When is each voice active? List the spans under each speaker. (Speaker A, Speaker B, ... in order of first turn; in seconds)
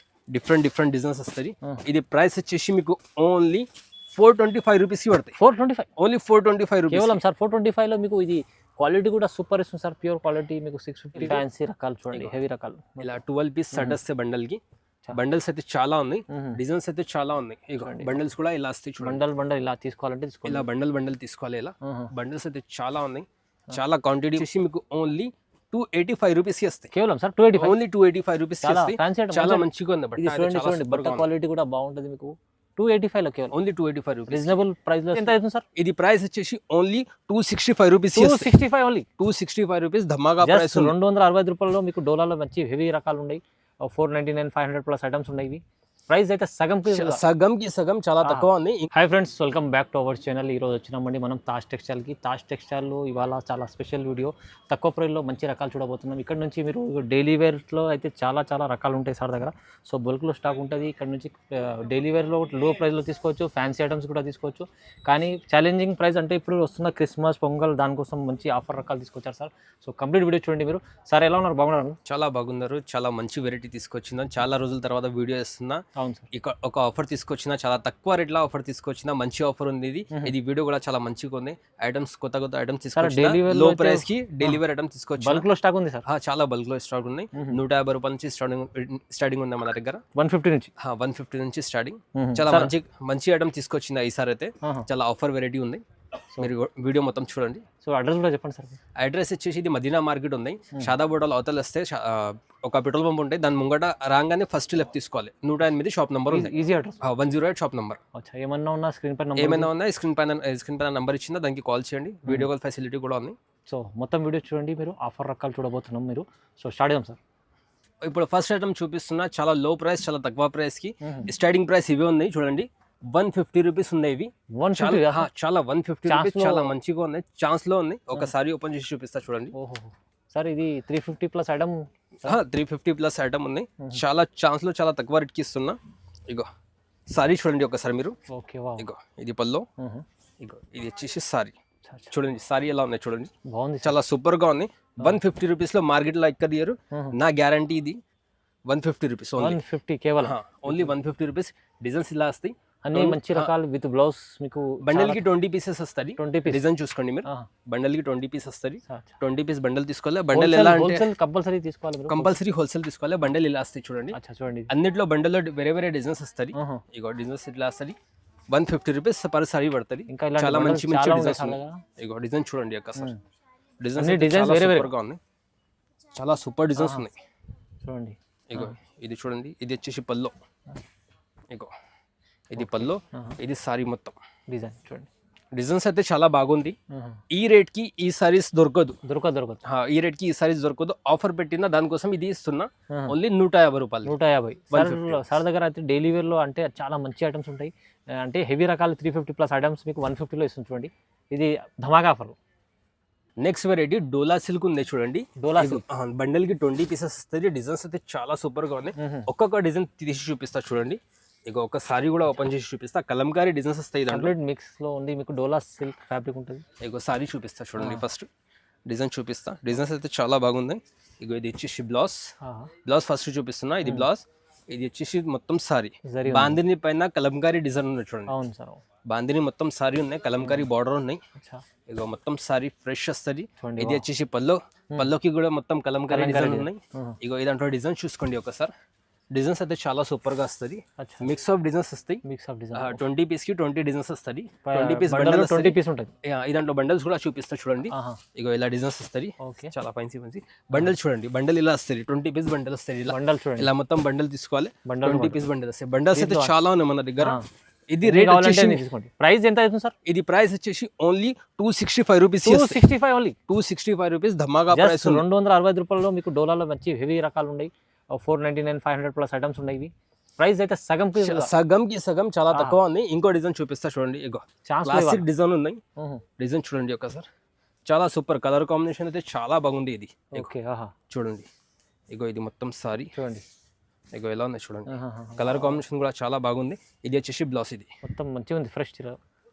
Speaker A: 0.3-5.4, 6.0-7.2, 11.1-11.4, 13.0-14.6, 15.1-19.2, 20.4-26.9, 27.6-31.3, 33.5-34.5, 35.2-38.5, 39.2-40.9, 46.9-48.9, 72.0-85.4, 86.0-90.0, 90.8-95.8, 96.4-97.6, 99.0-108.0, 109.4-113.3, 118.0-129.5, 132.2-135.8, 137.1-138.2, 138.8-139.7, 140.4-141.5, 142.1-143.3, 143.8-148.0, 148.7-149.6, 150.2-153.5, 154.8-161.0, 162.1-164.2, 164.7-167.9, 168.5-173.1, 173.8-175.2, 176.1-177.1, 178.5-180.3, 182.5-184.2, 185.5-186.8, 187.3-189.0, 189.6-194.1, 194.7-195.4, 203.4-214.3, 216.8-218.3, 218.8-222.3, 222.8-228.3, 229.1-231.2, 231.8-238.7, 239.3-242.2, 242.7-258.8, 260.0-262.8, 263.5-265.2, 271.1-275.8, 276.4-277.3, 277.9-280.5, 281.1-281.5, 282.1-283.1, 284.1-287.9
Speaker B: 5.4-5.9, 6.9-13.1, 13.7-14.0, 16.3-16.6, 17.8-18.2, 19.0-20.6, 21.8-22.1, 26.9-27.8, 28.6-33.5, 34.3-35.6, 38.1-39.1, 40.4-47.2, 48.2-72.0, 76.0-76.2, 82.9-84.6, 85.2-86.0, 87.3-87.6, 90.2-90.7, 92.1-92.7, 94.6-94.9, 97.8-98.8, 106.3-107.0, 108.1-109.7, 113.7-117.2, 121.0-121.3, 124.6-125.3, 126.1-126.7, 129.5-132.4, 138.3-138.9, 139.8-140.0, 141.8-142.1, 143.5-143.9, 146.9-147.2, 149.4-150.9, 152.8-155.2, 156.2-156.6, 158.9-159.2, 160.3-162.4, 164.1-164.7, 166.5-166.8, 170.1-171.8, 174.0-174.9, 176.8-177.1, 177.8-178.7, 182.6-183.4, 184.5-185.1, 186.9-187.2, 189.0-189.6, 194.1-202.4, 205.4-205.8, 209.0-209.3, 214.1-216.6, 217.8-218.0, 222.4-222.7, 226.1-226.6, 228.3-228.8, 230.4-230.7, 231.3-231.6, 233.6-234.0, 236.1-237.2, 241.0-241.3, 242.2-243.0, 244.6-246.1, 247.9-248.2, 249.4-249.7, 253.1-253.7, 254.8-255.4, 256.1-256.5, 257.2-257.4, 258.0-259.9, 262.4-263.4, 264.7-271.5, 272.5-272.8, 274.7-275.2, 276.0-276.2, 280.3-280.9, 283.1-283.4, 284.9-285.8, 288.0-289.2